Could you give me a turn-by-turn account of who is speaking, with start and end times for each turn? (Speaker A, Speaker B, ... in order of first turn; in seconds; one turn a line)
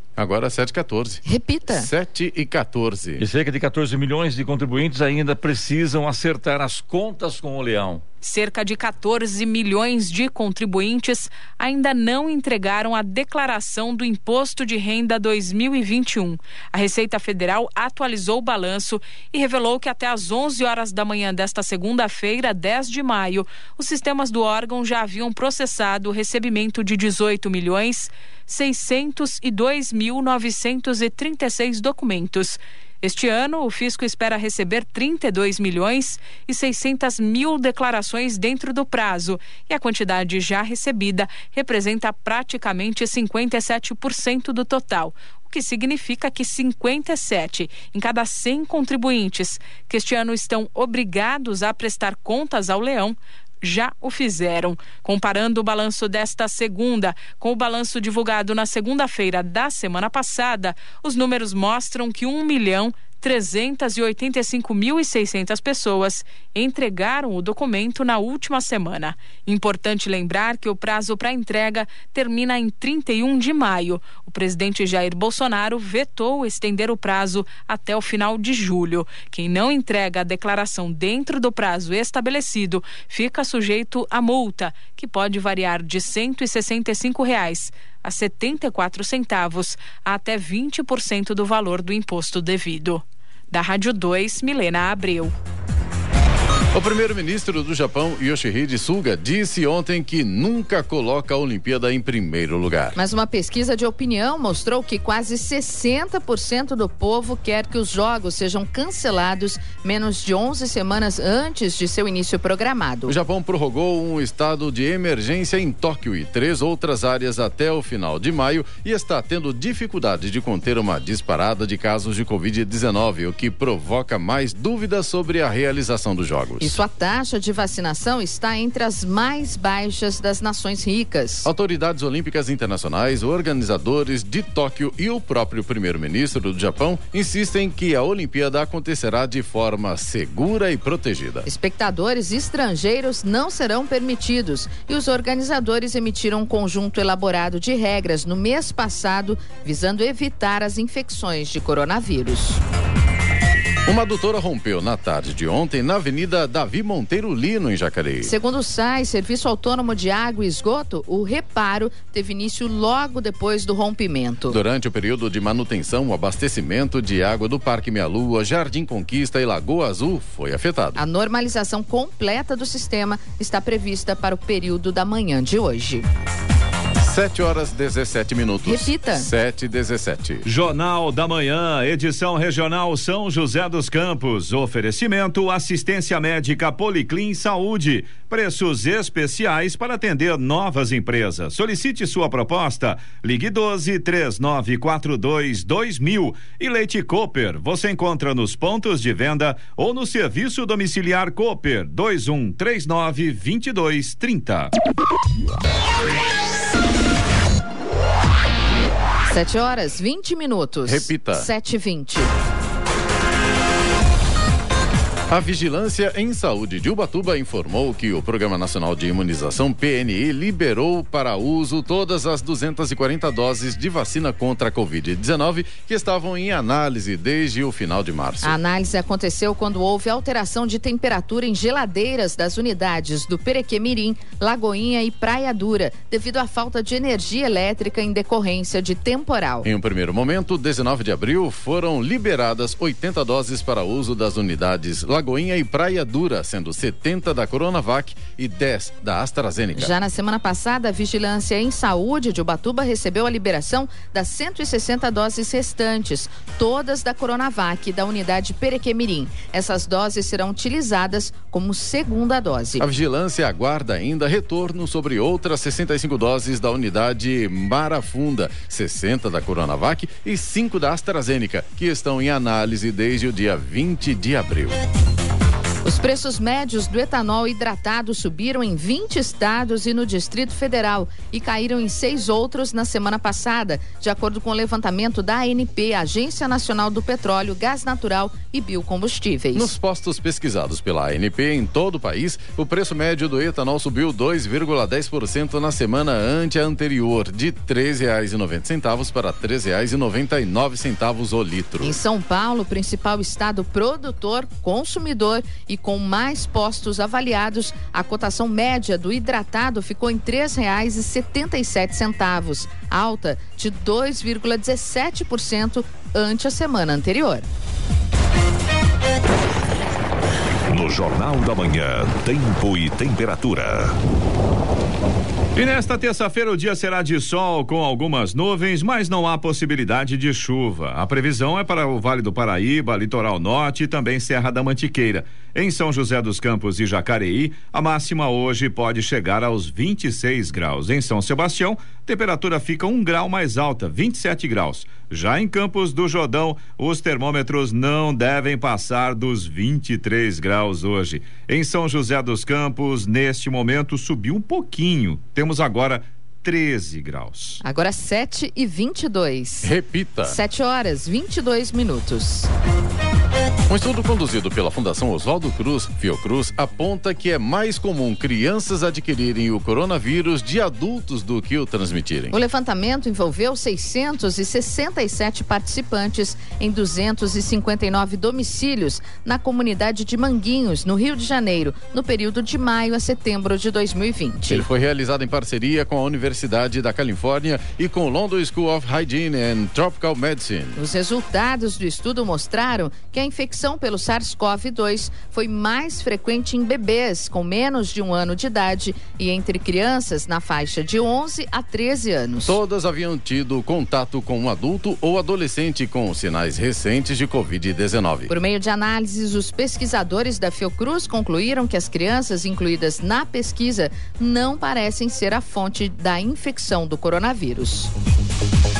Speaker A: 0.2-3.2
Speaker B: 1.2-1.9
Speaker C: 3.2-8.0
Speaker D: 8.2-95.3
Speaker A: 96.7-103.0
Speaker B: 102.9-113.1
Speaker A: 113.0-126.7
Speaker B: 126.6-131.5
Speaker A: 131.4-141.4
Speaker B: 141.4-152.6
Speaker A: 153.8-158.3
Speaker B: 158.2-164.6
Speaker A: 164.5-171.0
Speaker B: 170.9-176.1
Speaker A: 177.0-180.4
Speaker B: 178.6-179.3
Speaker E: 180.4-204.7
Speaker B: 209.3-212.3
Speaker A: 210.8-211.5
Speaker A: 215.3-228.6
Speaker B: 228.4-239.7
Speaker A: 239.6-249.9
Speaker B: 249.8-262.9
Speaker A: 262.8-274.8
Speaker B: 275.8-289.7
Speaker A: 289.5-302.0
Speaker B: 301.8-317.4
Speaker F: 320.7-324.0
Speaker E: 325.5-357.6
Speaker B: 357.6-359.7
Speaker A: 359.6-360.4
Speaker B: 360.2-362.5
Speaker A: 363.7-372.3
Speaker B: 372.3-384.6
Speaker A: 384.5-390.8
Speaker B: 390.8-402.6
Speaker A: 402.4-408.3
Speaker B: 408.3-417.9